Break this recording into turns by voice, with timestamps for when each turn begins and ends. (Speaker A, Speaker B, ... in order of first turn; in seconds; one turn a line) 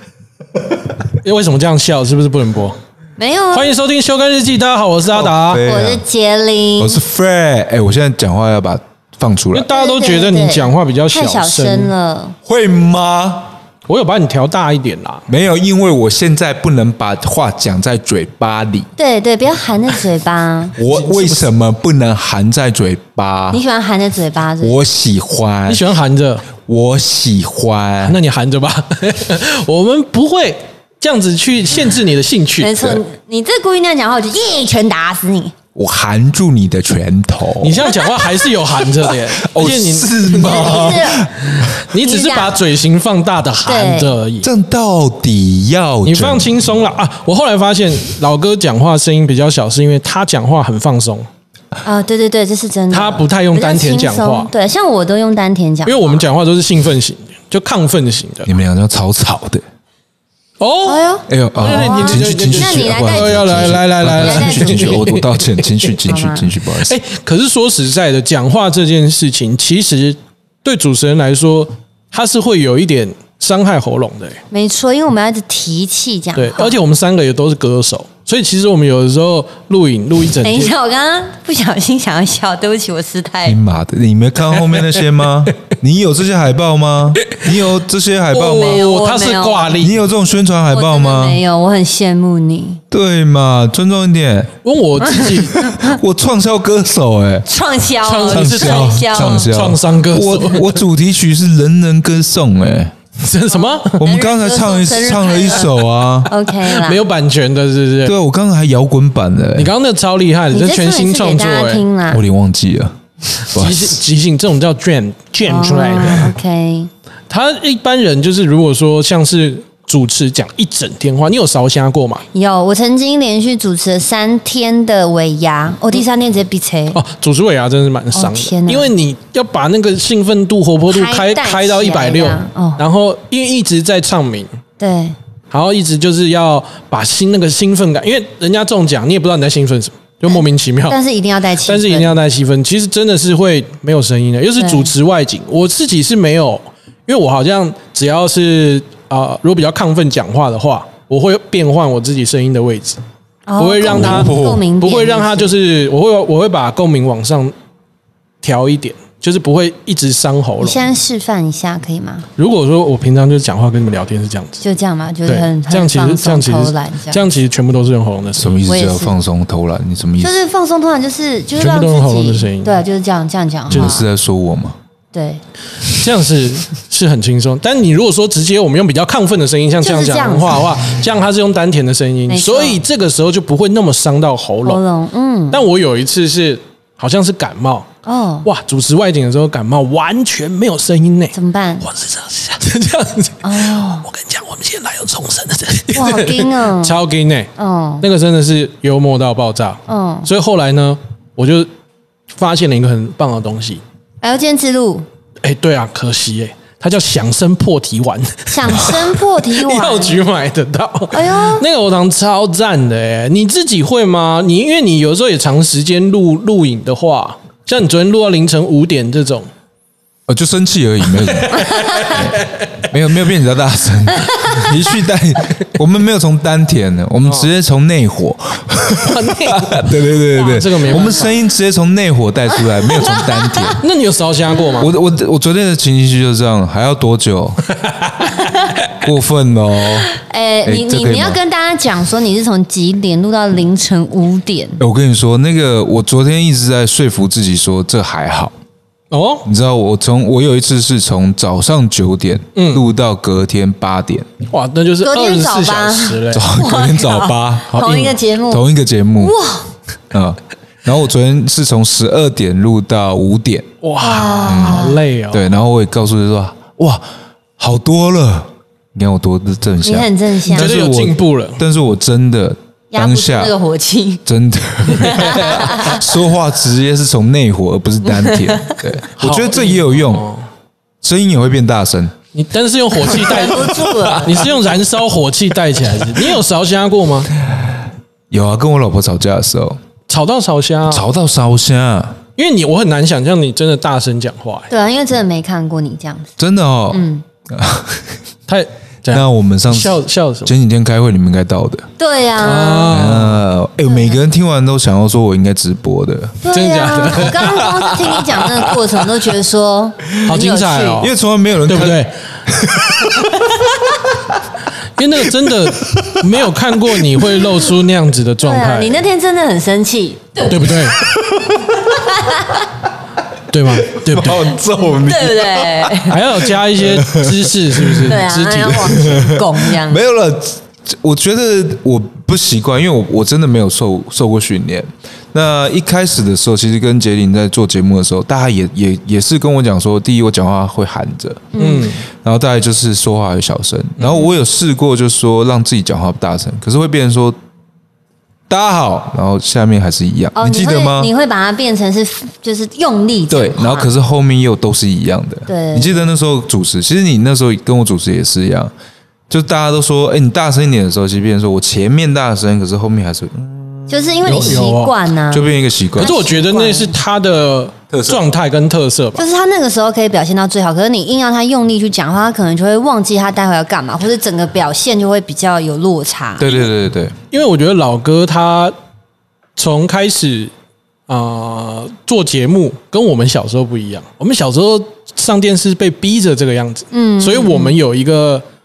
Speaker A: 1.2-2.8
Speaker B: 3.2-3.7
Speaker A: 3.5-5.7
Speaker C: 5.1-6.0
Speaker B: 5.6-7.0
Speaker C: 6.8-9.7
Speaker A: 9.5-11.9
Speaker B: 9.7-12.3
Speaker C: 12.4-13.6
Speaker A: 13.9-15.3
Speaker C: 15.3-18.9
Speaker B: 19.0-20.8
Speaker C: 20.8-23.6
Speaker A: 20.8-21.5
Speaker B: 23.5-24.8
Speaker C: 24.6-25.9
Speaker A: 25.7-26.5
Speaker C: 26.7-28.2
Speaker A: 28.0-33.0
Speaker B: 32.6-35.5
Speaker C: 35.8-37.9
Speaker A: 37.6-41.0
Speaker B: 37.8-38.5
Speaker C: 39.3-41.8
Speaker B: 40.3-41.4
Speaker A: 41.8-44.5
Speaker B: 41.9-42.6
Speaker B: 43.6-44.2
Speaker C: 44.4-46.8
Speaker A: 46.1-51.3
Speaker B: 51.9-56.2
Speaker A: 52.9-54.5
Speaker A: 55.9-58.5
Speaker C: 58.5-59.6
Speaker A: 60.6-61.0
Speaker B: 60.9-65.0
Speaker C: 61.3-67.0
Speaker A: 61.6-65.9
Speaker B: 66.1-66.5
Speaker A: 66.8-74.4
Speaker B: 74.5-76.8
Speaker A: 76.4-80.7
Speaker B: 80.4-83.6
Speaker C: 83.5-88.8
Speaker B: 88.3-89.8
Speaker A: 88.4-90.0
Speaker C: 89.8-91.4
Speaker B: 90.7-92.8
Speaker C: 92.9-94.5
Speaker A: 94.6-95.6
Speaker B: 95.0-96.0
Speaker C: 95.5-97.5
Speaker B: 97.5-99.5
Speaker A: 98.0-100.8
Speaker C: 98.3-102.9
Speaker A: 103.2-104.0
Speaker B: 103.5-107.0
Speaker C: 104.0-106.3
Speaker A: 106.7-108.2
Speaker C: 108.0-109.7
Speaker A: 109.6-111.9
Speaker B: 110.5-112.2
Speaker C: 112.1-113.0
Speaker C: 113.5-114.0
Speaker A: 113.5-116.3
Speaker B: 115.5-116.9
Speaker A: 117.3-122.2
Speaker B: 122.3-127.0
Speaker A: 126.9-134.5
Speaker B: 128.2-128.9
Speaker B: 130.9-132.8
Speaker B: 134.8-135.2
Speaker A: 135.5-141.0
Speaker B: 140.3-142.1
Speaker A: 141.7-153.0
Speaker B: 144.6-144.9
Speaker B: 153.5-155.5
Speaker A: 153.6-157.5
Speaker C: 153.9-154.6
Speaker A: 158.4-160.8
Speaker B: 160.6-162.3
Speaker A: 162.4-164.6
Speaker B: 164.6-167.2
Speaker A: 165.3-168.6
Speaker C: 168.4-170.3
Speaker B: 168.7-169.1
Speaker B: 170.2-174.1
Speaker A: 171.6-172.8
Speaker C: 173.7-174.8
Speaker B: 175.1-175.4
Speaker A: 175.9-184.8
Speaker B: 179.8-180.6
Speaker B: 182.3-182.8
Speaker B: 184.6-185.6
Speaker A: 185.5-187.9
Speaker B: 188.1-188.5
Speaker A: 188.4-201.7
Speaker B: 191.3-191.9
Speaker B: 193.4-194.1
Speaker B: 195.9-197.0
Speaker B: 197.6-198.1
Speaker B: 199.9-200.3
Speaker A: 202.4-203.8
Speaker B: 204.2-205.1
Speaker A: 205.4-219.5
Speaker B: 208.5-210.2
Speaker B: 211.1-211.6
Speaker C: 220.3-222.4
Speaker A: 221.2-222.8
Speaker B: 221.7-222.2
Speaker C: 222.9-233.8
Speaker B: 224.3-224.6
Speaker A: 229.0-231.4
Speaker B: 232.9-233.8
Speaker A: 233.8-234.9
Speaker C: 234.8-237.6
Speaker B: 238.4-238.7
Speaker C: 239.0-240.1
Speaker B: 240.1-244.8
Speaker C: 240.7-241.4
Speaker C: 244.8-248.5
Speaker A: 249.1-249.5
Speaker C: 249.4-254.3
Speaker A: 252.6-252.8
Speaker A: 254.5-256.5
Speaker B: 255.0-258.6
Speaker C: 256.3-257.7
Speaker A: 257.7-258.2
Speaker C: 258.5-259.4
Speaker B: 259.2-259.7
Speaker C: 260.1-263.7
Speaker A: 263.8-265.4
Speaker B: 264.0-265.0
Speaker C: 264.5-267.0
Speaker C: 267.6-273.6
Speaker B: 269.8-270.7
Speaker A: 270.5-271.6
Speaker B: 272.9-274.2
Speaker C: 274.3-280.3
Speaker B: 274.9-276.1
Speaker B: 278.1-278.8
Speaker A: 279.2-280.5
Speaker C: 281.0-282.1
Speaker A: 282.3-287.3
Speaker B: 283.0-284.5
Speaker C: 283.9-284.2
Speaker C: 287.5-287.8
Speaker C: 288.3-289.8
Speaker A: 290.1-291.1
Speaker C: 290.9-292.2
Speaker A: 292.4-294.7
Speaker B: 294.7-296.3
Speaker C: 296.4-298.2
Speaker B: 296.9-297.2
Speaker A: 298.5-300.5
Speaker C: 299.1-301.9
Speaker B: 302.0-303.0
Speaker A: 302.4-303.4
Speaker C: 302.9-306.4
Speaker B: 303.9-304.2
Speaker B: 306.4-311.1
Speaker A: 306.5-308.8
Speaker A: 310.2-311.1
Speaker C: 311.0-314.4
Speaker A: 311.7-312.1
Speaker A: 315.0-319.0
Speaker C: 315.5-316.3
Speaker C: 317.2-317.4
Speaker B: 318.4-320.9
Speaker A: 320.5-321.0
Speaker C: 321.0-322.2
Speaker B: 321.9-322.7
Speaker A: 323.5-324.4
Speaker C: 323.8-341.6
Speaker B: 325.0-326.2
Speaker A: 326.1-328.8
Speaker B: 328.1-330.0
Speaker B: 341.5-341.9
Speaker A: 341.6-342.1
Speaker C: 342.1-347.4
Speaker C: 348.5-351.1
Speaker B: 350.4-353.9
Speaker C: 353.3-358.7
Speaker B: 355.5-356.1
Speaker C: 359.3-364.6
Speaker B: 363.9-367.0
Speaker A: 364.2-365.0
Speaker C: 365.3-366.2
Speaker A: 366.0-369.2
Speaker C: 367.9-368.2
Speaker B: 369.2-376.7
Speaker C: 376.4-377.1
Speaker A: 377.3-378.7
Speaker A: 379.6-380.5
Speaker A: 381.1-388.4
Speaker B: 386.9-387.8